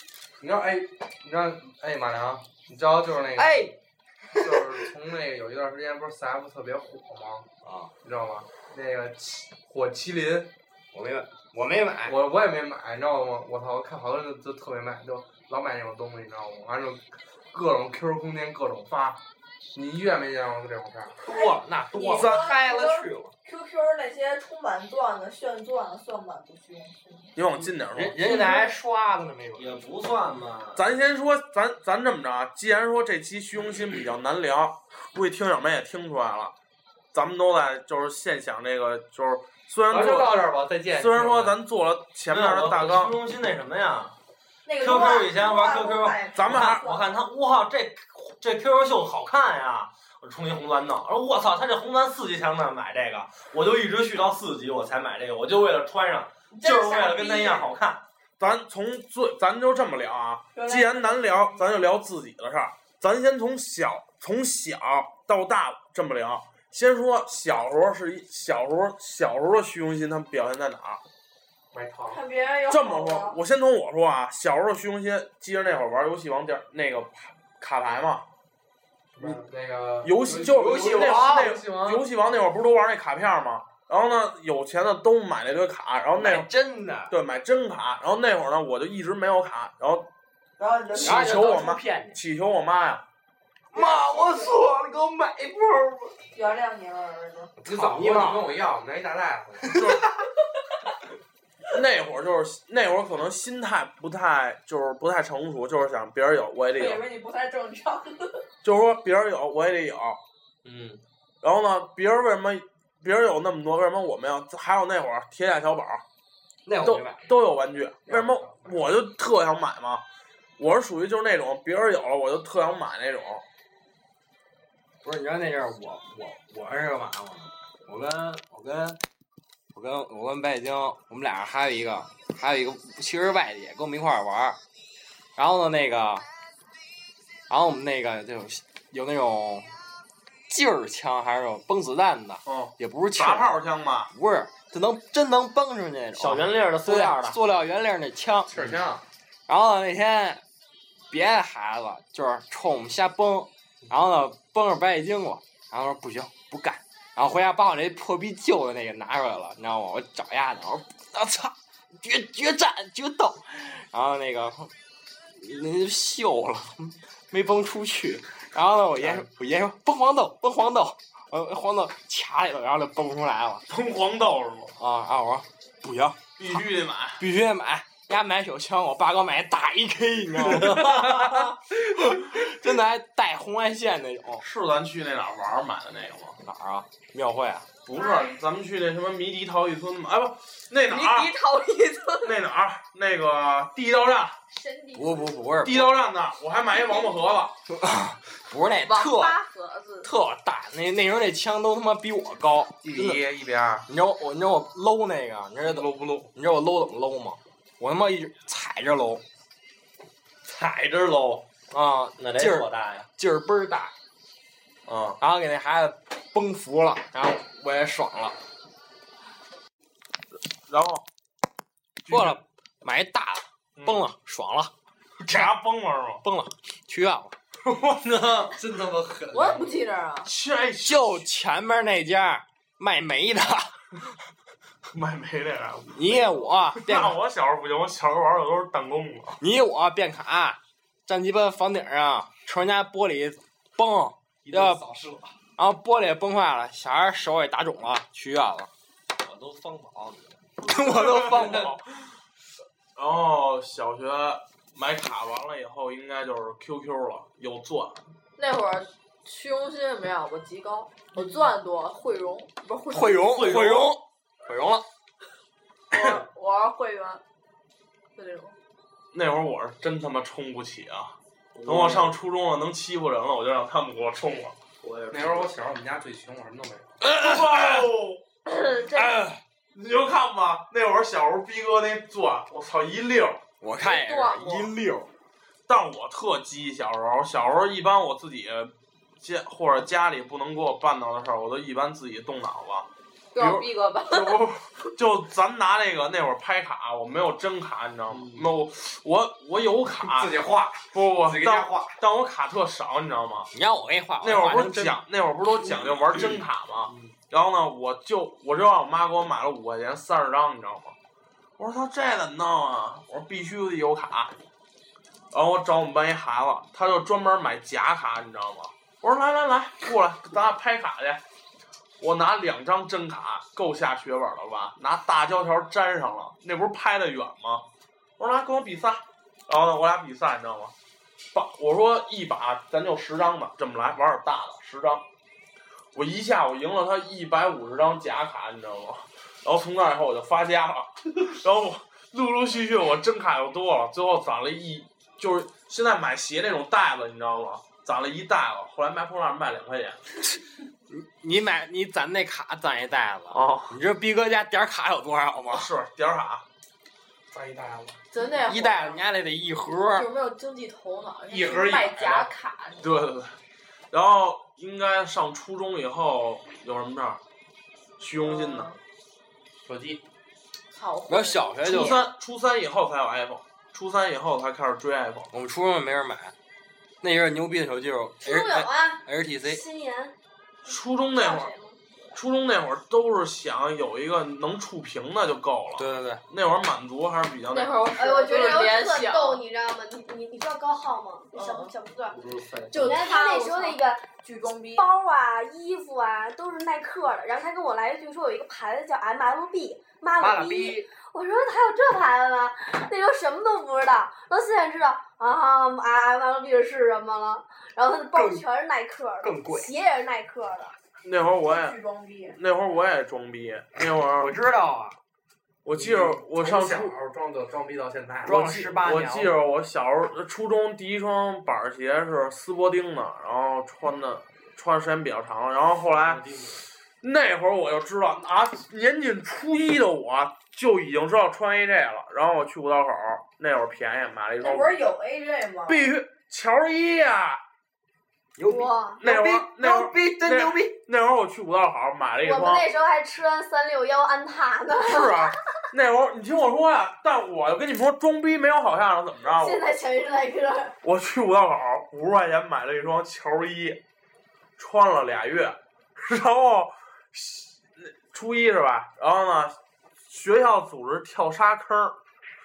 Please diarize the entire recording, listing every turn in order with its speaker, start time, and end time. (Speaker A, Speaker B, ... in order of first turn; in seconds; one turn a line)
Speaker A: 0.4-3.6
Speaker B: 3.4-3.8
Speaker B: 4.3-4.8
Speaker A: 4.3-7.5
Speaker B: 7.6-7.9
Speaker A: 8.0-10.5
Speaker B: 10.9-12.2
Speaker A: 12.1-19.2
Speaker A: 19.7-21.2
Speaker B: 21.2-23.3
Speaker C: 21.3-27.3
Speaker D: 22.2-22.5
Speaker D: 27.4-28.2
Speaker B: 27.9-29.8
Speaker C: 28.2-28.7
Speaker E: 29.6-30.8
Speaker D: 30.8-36.5
Speaker D: 37.1-43.2
Speaker A: 39.9-41.6
Speaker E: 42.3-44.1
Speaker C: 44.6-47.0
Speaker E: 44.8-58.0
Speaker D: 46.3-46.9
Speaker C: 56.5-57.7
Speaker D: 58.4-71.0
Speaker C: 60.5-61.6
Speaker A: 71.7-72.2
Speaker C: 72.1-73.4
Speaker D: 72.7-78.2
Speaker A: 79.2-82.0
Speaker D: 80.0-86.5
Speaker B: 80.8-81.5
Speaker B: 86.2-87.1
Speaker D: 87.1-90.1
Speaker C: 90.6-91.4
Speaker D: 91.0-93.0
Speaker B: 91.0-92.2
Speaker B: 93.7-96.1
Speaker C: 93.8-94.5
Speaker C: 96.3-97.5
Speaker B: 97.6-98.5
Speaker A: 97.7-99.9
Speaker B: 99.7-100.0
Speaker D: 99.8-100.0
Speaker D: 101.7-107.0
Speaker C: 106.8-108.4
Speaker D: 108.6-110.2
Speaker E: 110.7-111.0
Speaker D: 111.4-116.0
Speaker B: 116.7-117.3
Speaker D: 116.8-120.0
Speaker A: 118.1-118.9
Speaker D: 120.6-123.4
Speaker B: 125.0-129.0
Speaker B: 129.7-134.6
Speaker B: 135.4-136.2
Speaker B: 137.5-139.7
Speaker B: 140.5-143.6
Speaker D: 142.5-144.1
Speaker B: 144.1-148.6
Speaker E: 146.2-147.4
Speaker A: 148.5-149.0
Speaker B: 149.5-150.4
Speaker B: 151.1-164.7
Speaker B: 165.4-173.6
Speaker D: 173.7-174.8
Speaker B: 174.8-176.6
Speaker D: 176.4-177.2
Speaker B: 177.2-184.4
Speaker D: 180.5-181.5
Speaker D: 184.4-186.4
Speaker B: 186.4-187.7
Speaker D: 187.9-191.4
Speaker C: 187.9-188.3
Speaker C: 190.9-192.4
Speaker D: 192.2-194.4
Speaker C: 194.5-195.4
Speaker B: 194.9-195.9
Speaker D: 195.6-197.5
Speaker C: 196.7-197.2
Speaker B: 197.7-199.4
Speaker C: 198.8-200.1
Speaker B: 200.0-203.2
Speaker A: 202.8-203.9
Speaker B: 203.9-209.2
Speaker A: 205.7-206.3
Speaker E: 210.4-211.4
Speaker B: 211.7-213.9
Speaker E: 212.2-213.1
Speaker D: 214.9-215.2
Speaker B: 215.2-218.4
Speaker D: 220.7-221.0
Speaker D: 222.1-222.4
Speaker B: 222.1-224.7
Speaker D: 225.2-226.2
Speaker B: 226.2-227.3
Speaker D: 227.8-228.5
Speaker A: 228.5-229.7
Speaker C: 229.3-230.3
Speaker D: 230.2-231.2
Speaker B: 230.8-233.8
Speaker D: 234.9-236.3
Speaker B: 236.0-237.2
Speaker D: 236.8-239.4
Speaker B: 239.4-244.8
Speaker A: 244.5-245.3
Speaker B: 245.6-248.7
Speaker E: 249.2-250.5
Speaker B: 250.6-251.8
Speaker D: 250.9-251.8
Speaker D: 253.0-258.0
Speaker C: 258.4-263.3
Speaker B: 262.9-264.9
Speaker E: 263.3-264.0
Speaker C: 265.9-267.2
Speaker C: 268.2-268.6
Speaker D: 269.1-274.6
Speaker E: 271.6-271.9
Speaker E: 274.8-275.4
Speaker A: 275.1-276.9
Speaker B: 277.0-277.9
Speaker D: 277.1-278.2
Speaker C: 278.5-279.1
Speaker B: 278.9-279.4
Speaker D: 279.7-283.4
Speaker B: 283.6-285.1
Speaker C: 283.8-284.7
Speaker D: 285.7-303.5
Speaker C: 293.4-294.4
Speaker A: 300.2-301.8
Speaker B: 303.5-305.0
Speaker D: 304.2-310.9
Speaker D: 311.6-314.3
Speaker D: 315.3-321.2
Speaker D: 322.0-327.6
Speaker D: 328.2-330.7
Speaker D: 331.3-335.0
Speaker D: 335.9-350.0
Speaker B: 350.9-355.7
Speaker D: 353.3-353.8
Speaker D: 355.5-356.4
Speaker A: 357.3-358.0
Speaker C: 358.1-359.0
Speaker B: 358.4-360.1
Speaker C: 359.9-363.1
Speaker A: 361.3-362.3
Speaker D: 362.8-363.3
Speaker D: 363.9-367.2
Speaker D: 368.0-368.7
Speaker C: 368.2-368.8
Speaker A: 369.6-370.0
Speaker C: 370.7-372.0
Speaker B: 371.1-372.1
Speaker D: 371.6-375.3
Speaker B: 375.3-376.4
Speaker B: 377.0-379.6
Speaker F: 378.2-380.1
Speaker D: 380.7-381.5
Speaker F: 381.1-381.8
Speaker D: 382.1-387.8
Speaker B: 385.8-386.2
Speaker C: 387.5-389.4
Speaker F: 387.9-392.2
Speaker C: 391.3-391.7
Speaker C: 392.7-394.9
Speaker F: 392.8-394.1
Speaker F: 394.8-410.8
Speaker B: 400.2-400.9
Speaker B: 408.1-408.4
Speaker B: 409.2-409.7
Speaker D: 411.0-411.8
Speaker C: 411.4-412.4
Speaker D: 412.3-414.4
Speaker B: 414.2-415.0
Speaker D: 415.6-416.9
Speaker A: 415.7-418.4
Speaker B: 418.3-419.4
Speaker D: 418.3-426.2
Speaker D: 427.0-434.8
Speaker C: 434.4-435.9
Speaker D: 435.7-437.4
Speaker B: 438.4-440.8
Speaker F: 438.5-439.0
Speaker D: 439.0-442.7
Speaker F: 442.2-445.3
Speaker D: 444.8-449.6
Speaker F: 449.3-450.8
Speaker D: 450.8-453.8
Speaker D: 454.6-459.6
Speaker D: 460.1-462.0